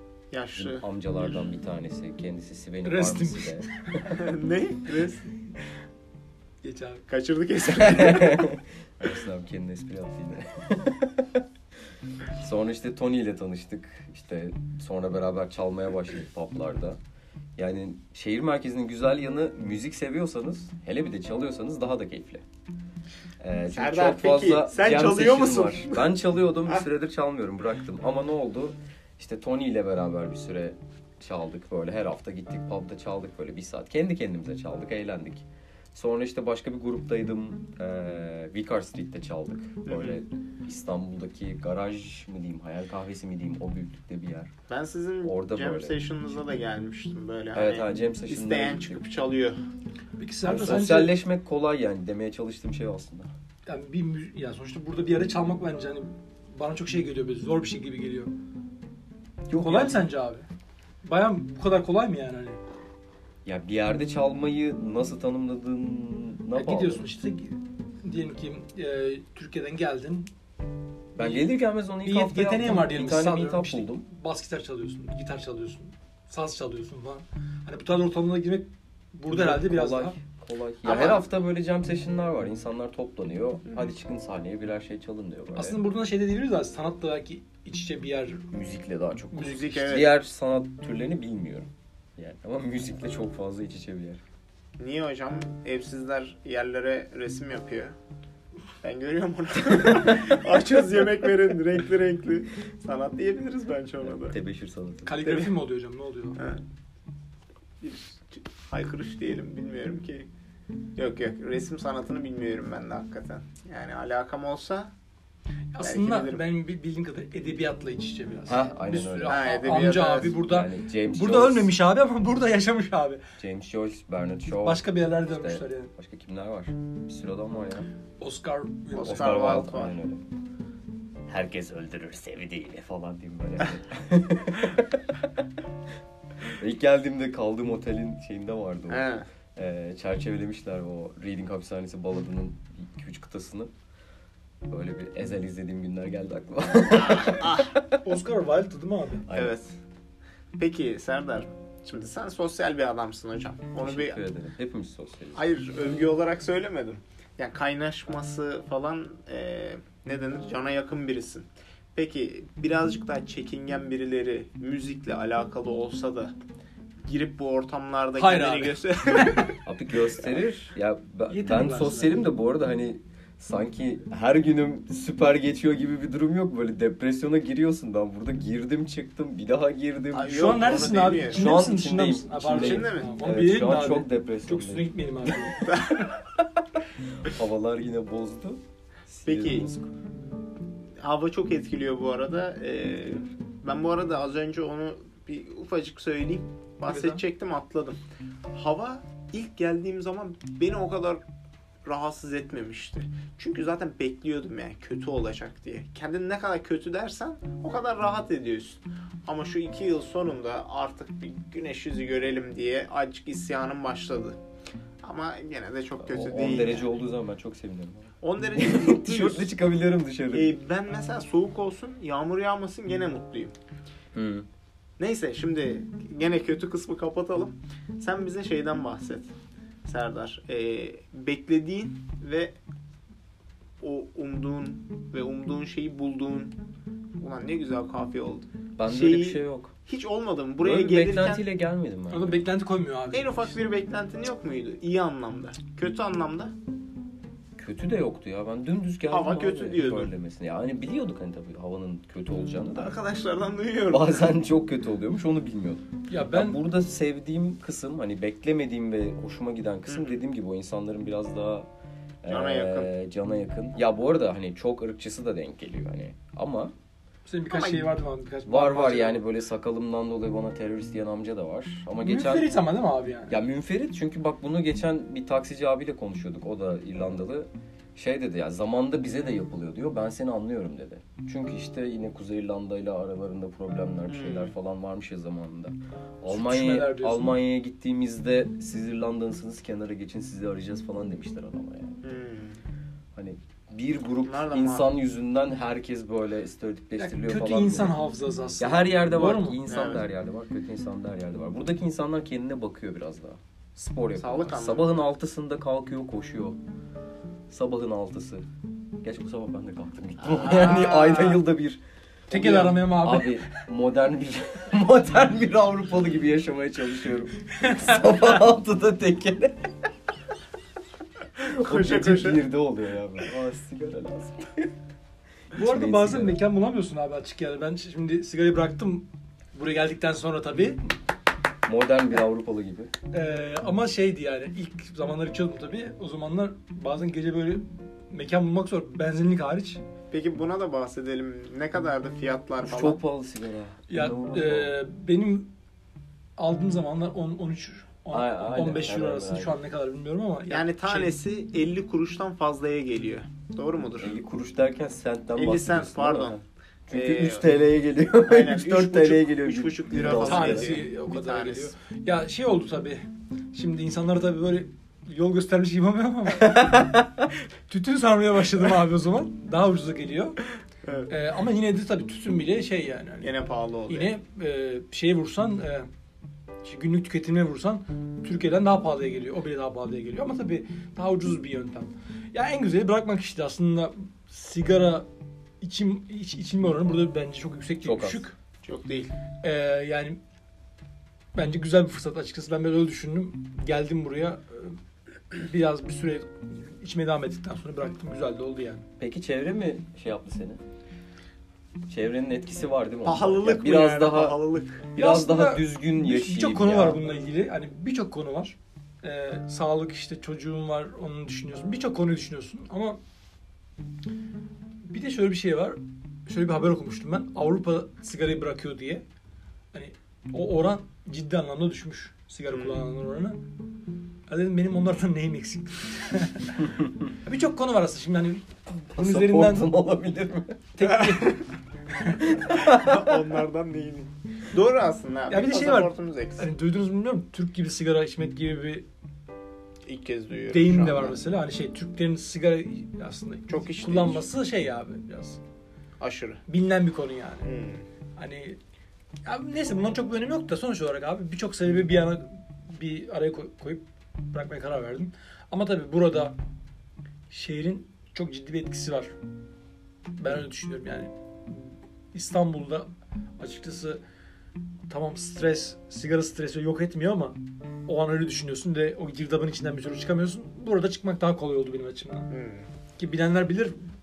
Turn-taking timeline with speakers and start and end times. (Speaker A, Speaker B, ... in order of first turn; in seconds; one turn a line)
Speaker A: 0.3-1.4
Speaker B: 0.5-4.1
Speaker C: 2.8-3.7
Speaker A: 4.1-5.2
Speaker C: 6.6-7.0
Speaker A: 7.1-8.5
Speaker B: 7.7-11.4
Speaker B: 12.4-17.0
Speaker B: 17.6-22.4
Speaker B: 23.4-44.5
Speaker A: 23.7-26.1
Speaker A: 39.9-40.2
Speaker A: 44.7-49.6
Speaker B: 45.2-46.4
Speaker B: 47.5-49.0
Speaker C: 50.2-51.1
Speaker B: 50.4-53.3
Speaker C: 53.7-58.3
Speaker B: 59.5-60.1
Speaker C: 59.6-60.5
Speaker C: 61.0-62.6
Speaker B: 63.4-67.0
Speaker C: 66.5-70.3
Speaker B: 71.1-74.0
Speaker C: 71.2-71.5
Speaker C: 72.0-80.2
Speaker B: 79.3-85.8
Speaker A: 80.8-81.2
Speaker C: 85.5-88.5
Speaker B: 88.5-94.2
Speaker A: 89.3-90.1
Speaker A: 94.8-97.9
Speaker A: 98.8-104.4
Speaker B: 104.0-105.1
Speaker C: 105.0-106.4
Speaker A: 105.2-105.5
Speaker A: 107.8-110.3
Speaker A: 111.0-114.9
Speaker C: 115.7-123.2
Speaker A: 115.8-116.4
Speaker B: 118.5-121.7
Speaker A: 119.2-120.3
Speaker B: 123.4-127.9
Speaker C: 124.5-125.9
Speaker C: 128.2-129.6
Speaker A: 128.9-129.9
Speaker B: 129.0-130.2
Speaker B: 131.3-135.0
Speaker B: 136.4-143.7
Speaker A: 138.9-139.2
Speaker B: 144.7-148.0
Speaker A: 146.9-147.7
Speaker C: 148.0-149.2
Speaker B: 149.3-149.5
Speaker A: 149.3-149.7
Speaker A: 150.6-154.2
Speaker B: 153.8-155.4
Speaker A: 155.3-166.3
Speaker A: 167.0-169.5
Speaker C: 168.2-169.5
Speaker B: 169.6-184.9
Speaker C: 171.3-172.2
Speaker A: 180.1-181.5
Speaker C: 180.3-185.7
Speaker A: 182.5-183.1
Speaker A: 185.6-186.2
Speaker B: 187.2-189.9
Speaker A: 189.2-189.7
Speaker A: 191.0-198.0
Speaker C: 196.9-197.2
Speaker A: 198.5-201.2
Speaker A: 201.8-214.4
Speaker A: 215.0-216.9
Speaker B: 216.0-220.5
Speaker A: 218.2-219.5
Speaker A: 220.3-223.5
Speaker B: 224.1-224.5
Speaker A: 225.0-229.3
Speaker A: 229.8-232.5
Speaker A: 233.8-236.5
Speaker A: 237.2-241.4
Speaker B: 238.8-239.7
Speaker B: 240.6-242.4
Speaker C: 242.1-243.6
Speaker A: 243.1-246.5
Speaker B: 247.6-252.9
Speaker A: 249.1-250.1
Speaker A: 252.7-254.3
Speaker B: 253.9-261.7
Speaker C: 256.1-256.6
Speaker A: 259.9-260.2
Speaker B: 262.2-266.7
Speaker A: 262.2-262.9
Speaker C: 267.3-269.2
Speaker A: 267.5-267.9
Speaker B: 268.4-272.5
Speaker C: 272.0-273.4
Speaker B: 273.3-292.0
Speaker A: 284.1-284.5
Speaker C: 286.3-287.4
Speaker A: 292.0-292.6
Speaker B: 293.1-297.9
Speaker A: 294.2-294.9
Speaker C: 297.0-299.6
Speaker B: 298.6-306.6
Speaker A: 299.7-300.0
Speaker A: 304.2-305.0
Speaker B: 307.5-308.4
Speaker B: 309.0-319.7
Speaker A: 310.2-311.4
Speaker C: 312.3-313.6
Speaker C: 317.6-318.0
Speaker B: 321.4-324.7
Speaker A: 321.4-322.4
Speaker C: 325.5-330.8
Speaker B: 325.5-326.4
Speaker B: 331.6-332.9
Speaker C: 333.1-339.8
Speaker A: 340.1-343.0
Speaker B: 342.6-344.7
Speaker C: 343.9-345.5
Speaker C: 346.4-351.1
Speaker B: 348.1-349.6
Speaker A: 350.5-354.2
Speaker B: 354.0-360.8
Speaker A: 355.4-356.4
Speaker A: 356.9-357.5
Speaker A: 358.2-361.7
Speaker C: 360.1-366.9
Speaker B: 366.6-367.0
Speaker C: 367.7-370.4
Speaker A: 370.8-371.1
Speaker C: 371.1-373.3
Speaker A: 373.2-374.1
Speaker C: 373.9-375.9
Speaker C: 376.6-385.1
Speaker C: 385.6-388.4
Speaker B: 387.8-388.2
Speaker A: 388.6-389.1
Speaker C: 389.4-390.2
Speaker C: 391.3-394.8
Speaker C: 395.3-398.9
Speaker B: 399.0-400.6
Speaker B: 401.9-404.4
Speaker A: 403.0-404.9
Speaker B: 404.9-407.1
Speaker C: 404.9-413.0
Speaker C: 414.8-419.0
Speaker C: 419.7-423.4
Speaker A: 422.5-422.9
Speaker C: 424.3-426.7
Speaker C: 427.2-429.7
Speaker B: 428.9-430.7
Speaker C: 430.8-431.4
Speaker A: 430.9-431.4
Speaker C: 432.0-432.3
Speaker B: 432.2-433.2
Speaker A: 432.5-436.5
Speaker C: 435.3-438.9
Speaker A: 439.9-441.2
Speaker C: 440.5-445.4
Speaker A: 443.5-444.3
Speaker A: 446.0-446.4
Speaker C: 446.5-447.5
Speaker A: 447.4-447.8
Speaker C: 448.2-448.6
Speaker C: 449.2-456.4
Speaker C: 457.3-459.1
Speaker C: 460.2-464.0
Speaker C: 464.9-472.3
Speaker A: 472.3-472.7
Speaker C: 473.0-473.8